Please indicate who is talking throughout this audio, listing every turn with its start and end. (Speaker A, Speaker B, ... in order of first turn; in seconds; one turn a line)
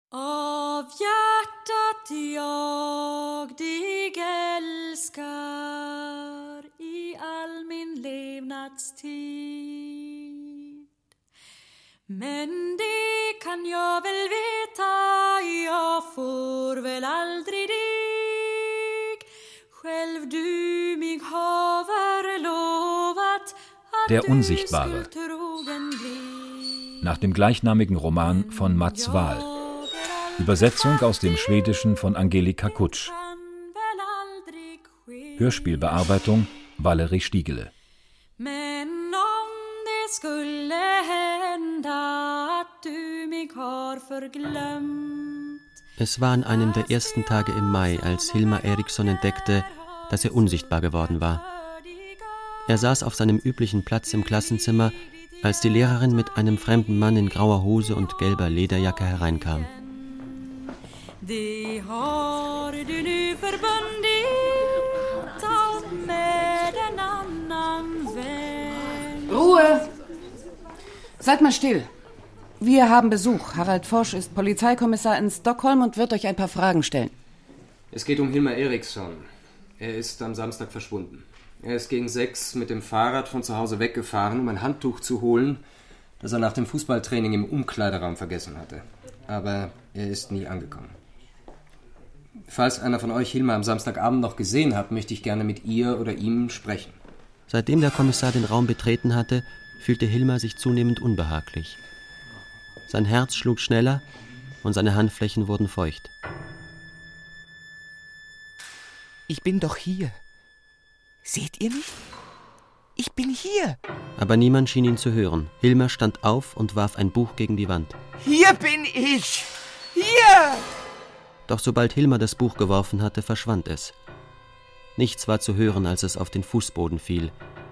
Speaker A: 0.1-10.8
Speaker A: 12.1-27.1
Speaker B: 24.1-25.1
Speaker B: 27.0-29.5
Speaker A: 28.2-31.2
Speaker B: 30.4-33.1
Speaker A: 33.0-35.6
Speaker B: 35.4-37.7
Speaker A: 38.4-45.6
Speaker C: 46.0-51.4
Speaker A: 51.7-52.3
Speaker C: 52.7-59.7
Speaker A: 59.9-60.5
Speaker A: 61.2-64.7
Speaker A: 65.4-69.4
Speaker D: 69.3-69.9
Speaker D: 71.2-71.9
Speaker D: 72.6-77.1
Speaker E: 77.9-79.3
Speaker E: 79.8-85.6
Speaker E: 86.2-91.0
Speaker E: 92.5-97.0
Speaker C: 97.5-101.8
Speaker C: 102.9-104.0
Speaker C: 104.6-106.1
Speaker F: 109.3-110.2
Speaker F: 111.2-112.0
Speaker F: 113.0-113.8
Speaker C: 114.2-118.0
Speaker F: 118.2-120.6
Speaker C: 121.5-123.9
Speaker C: 125.0-127.3